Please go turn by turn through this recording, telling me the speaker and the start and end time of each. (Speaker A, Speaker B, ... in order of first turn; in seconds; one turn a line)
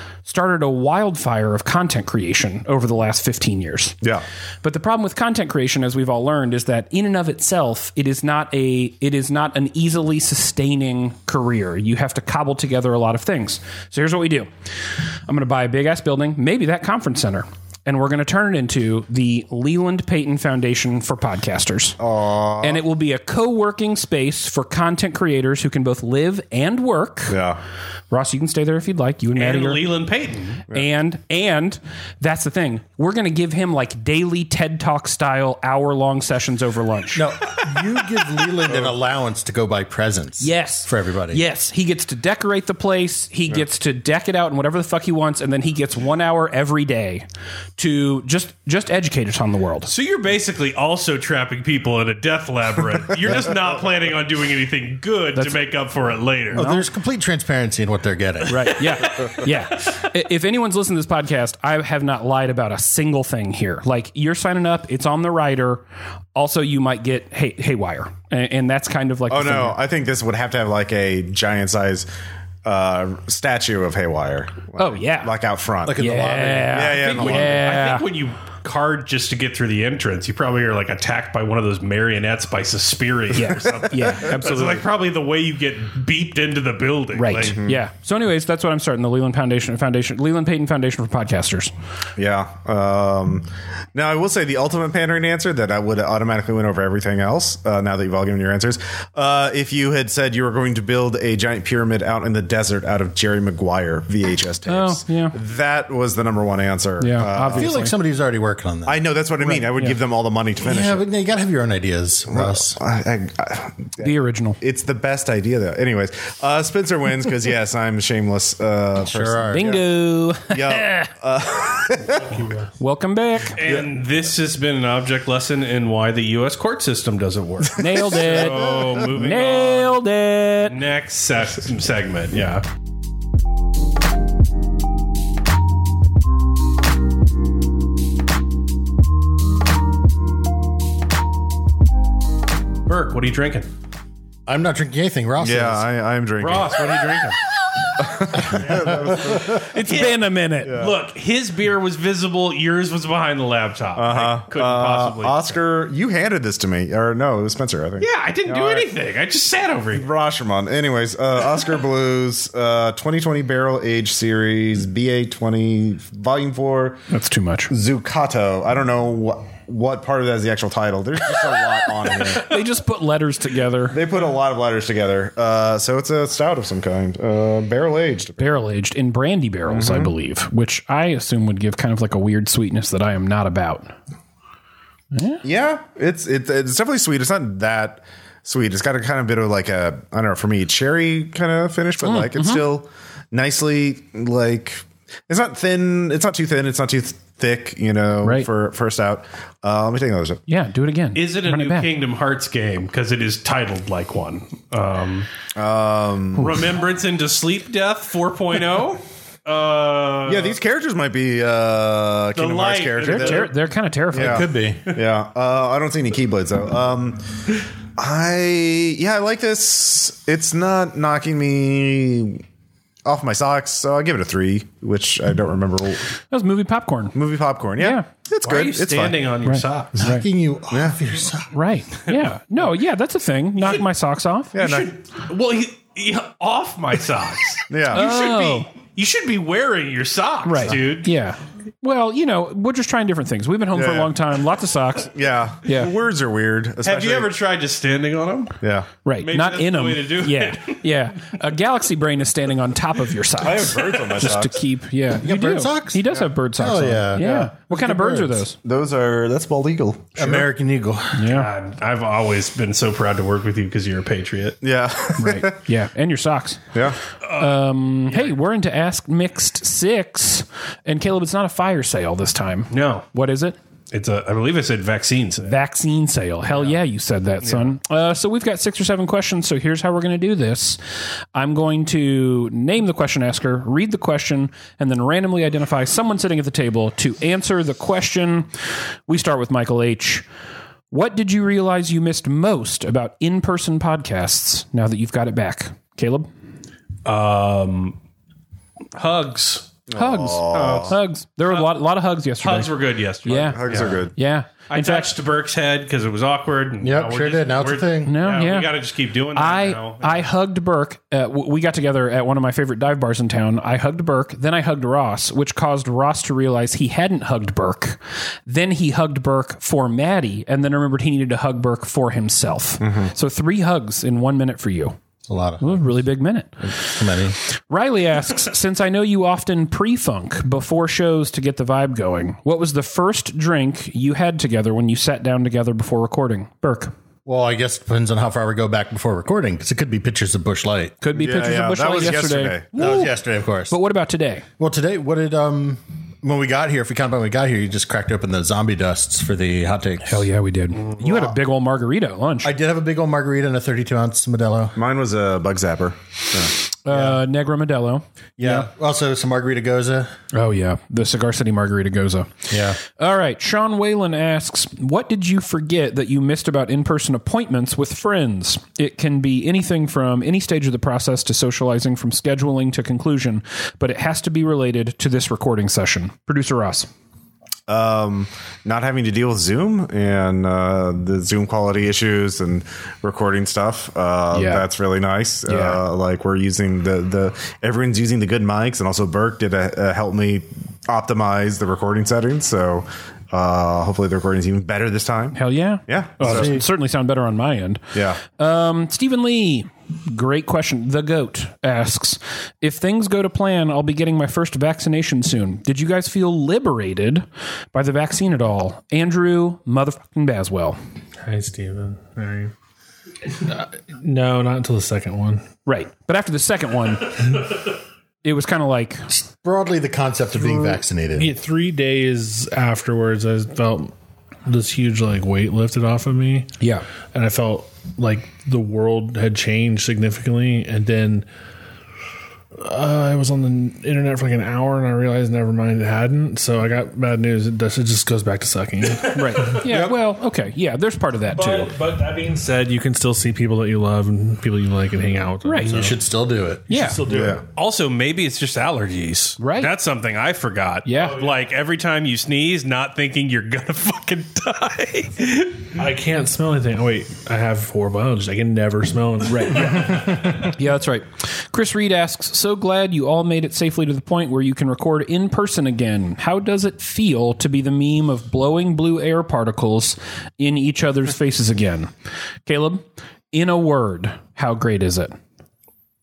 Speaker A: 0.2-4.0
Speaker A: 4.6-14.5
Speaker A: 15.3-22.0
Speaker B: 22.0-22.8
Speaker A: 22.6-27.4
Speaker B: 27.3-27.6
Speaker A: 28.1-29.9
Speaker C: 29.3-30.6
Speaker A: 30.7-37.3
Speaker D: 37.1-41.4
Speaker B: 38.7-39.0
Speaker A: 40.4-47.3
Speaker A: 47.8-49.9
Speaker C: 49.8-56.7
Speaker A: 55.4-55.6
Speaker A: 56.5-56.8
Speaker D: 56.5-58.9
Speaker A: 58.5-65.8
Speaker A: 66.3-69.8
Speaker B: 69.3-72.1
Speaker B: 72.7-76.0
Speaker A: 74.8-75.3
Speaker D: 75.8-77.5
Speaker A: 76.0-78.1
Speaker B: 76.7-77.6
Speaker C: 77.2-87.6
Speaker A: 83.3-84.8
Speaker B: 83.7-84.8
Speaker A: 87.1-91.7
Speaker B: 87.4-87.8
Speaker B: 92.2-107.8
Speaker A: 104.7-105.4
Speaker A: 107.0-108.0
Speaker D: 107.5-109.0
Speaker B: 108.9-111.1
Speaker A: 109.4-110.0
Speaker D: 110.6-112.8
Speaker B: 112.3-119.9
Speaker A: 114.0-114.6
Speaker D: 119.0-119.8
Speaker A: 119.5-121.1
Speaker B: 120.5-122.3
Speaker E: 122.1-122.7
Speaker A: 122.8-123.6
Speaker C: 123.5-130.0
Speaker A: 127.8-130.8
Speaker B: 127.9-129.1
Speaker C: 130.7-132.7
Speaker C: 142.9-143.7
Speaker D: 144.5-145.8
Speaker B: 145.4-147.2
Speaker C: 146.4-147.4
Speaker B: 148.0-150.0
Speaker D: 148.4-149.4
Speaker A: 149.4-150.8
Speaker C: 149.4-155.6
Speaker B: 150.6-150.9
Speaker B: 153.9-158.9
Speaker C: 158.0-160.1
Speaker B: 159.9-167.0
Speaker A: 167.1-167.7
Speaker B: 167.7-172.6
Speaker A: 172.3-174.0
Speaker B: 173.9-178.6
Speaker A: 178.4-183.9
Speaker B: 179.7-180.1
Speaker A: 185.1-185.4
Speaker B: 185.4-200.4
Speaker A: 192.0-192.7
Speaker A: 198.2-198.5
Speaker A: 200.5-201.9
Speaker C: 201.2-205.3
Speaker B: 205.6-206.6
Speaker C: 206.4-210.6
Speaker B: 210.3-213.5
Speaker C: 212.3-213.5
Speaker A: 213.0-214.5
Speaker B: 214.1-217.2
Speaker D: 214.1-214.9
Speaker B: 218.0-222.4
Speaker B: 223.1-226.1
Speaker A: 226.3-227.2
Speaker B: 227.1-229.3
Speaker A: 227.8-228.1
Speaker C: 228.4-230.1
Speaker A: 229.4-230.3
Speaker D: 230.0-231.5
Speaker B: 230.7-231.0
Speaker A: 231.5-234.6
Speaker B: 234.5-234.9
Speaker C: 234.6-241.1
Speaker B: 237.7-238.1
Speaker A: 237.9-238.7
Speaker A: 240.4-245.1
Speaker B: 243.7-244.1
Speaker B: 245.1-247.3
Speaker A: 245.7-245.9
Speaker C: 246.8-248.6
Speaker B: 248.6-248.9
Speaker A: 249.1-258.6
Speaker C: 249.2-250.8
Speaker B: 253.4-254.6
Speaker D: 255.2-258.4
Speaker B: 258.6-260.5
Speaker D: 260.2-261.3
Speaker A: 261.1-261.5
Speaker C: 261.3-264.6
Speaker B: 264.6-265.6
Speaker A: 265.2-266.7
Speaker C: 267.2-268.3
Speaker A: 267.3-273.6
Speaker C: 272.7-273.1
Speaker C: 273.9-275.6
Speaker A: 275.4-280.8
Speaker A: 281.3-288.5
Speaker A: 289.1-290.3
Speaker A: 290.9-296.3
Speaker C: 297.1-298.0
Speaker C: 299.0-299.7
Speaker B: 299.9-301.0
Speaker A: 299.9-305.1
Speaker C: 300.5-301.7
Speaker C: 302.4-304.1
Speaker B: 303.3-304.1
Speaker C: 304.7-310.3
Speaker D: 306.8-308.2
Speaker A: 308.1-308.8
Speaker A: 309.3-325.0
Speaker B: 322.8-323.1
Speaker D: 325.3-325.9
Speaker A: 325.6-336.9
Speaker D: 326.8-327.4
Speaker D: 337.3-341.0
Speaker A: 341.0-344.5
Speaker B: 341.1-342.7
Speaker D: 342.8-343.8
Speaker D: 344.6-350.3
Speaker A: 350.1-352.5
Speaker D: 351.0-351.4
Speaker D: 352.4-354.8
Speaker B: 354.8-356.5
Speaker A: 356.9-358.7
Speaker D: 356.9-357.2
Speaker D: 358.4-360.1
Speaker A: 360.3-376.9
Speaker D: 362.5-362.8
Speaker B: 377.7-396.6
Speaker A: 384.3-384.7
Speaker A: 385.5-385.8
Speaker A: 395.4-410.8
Speaker D: 396.2-396.6
Speaker B: 397.9-398.2
Speaker E: 411.2-412.5
Speaker E: 413.3-415.5
Speaker A: 415.7-417.6
Speaker A: 418.2-419.1
Speaker D: 419.1-421.3
Speaker E: 420.4-423.9
Speaker E: 424.5-426.5
Speaker A: 426.6-426.9
Speaker E: 427.1-431.3
Speaker E: 432.6-439.9
Speaker A: 439.1-441.7
Speaker E: 441.3-446.0
Speaker A: 445.4-445.9
Speaker D: 445.6-446.6
Speaker E: 446.7-447.4
Speaker A: 446.7-447.0
Speaker B: 447.1-447.4
Speaker C: 447.5-455.7
Speaker A: 449.4-449.7
Speaker A: 450.9-451.2
Speaker E: 455.7-460.5
Speaker A: 459.3-471.9
Speaker A: 472.4-475.1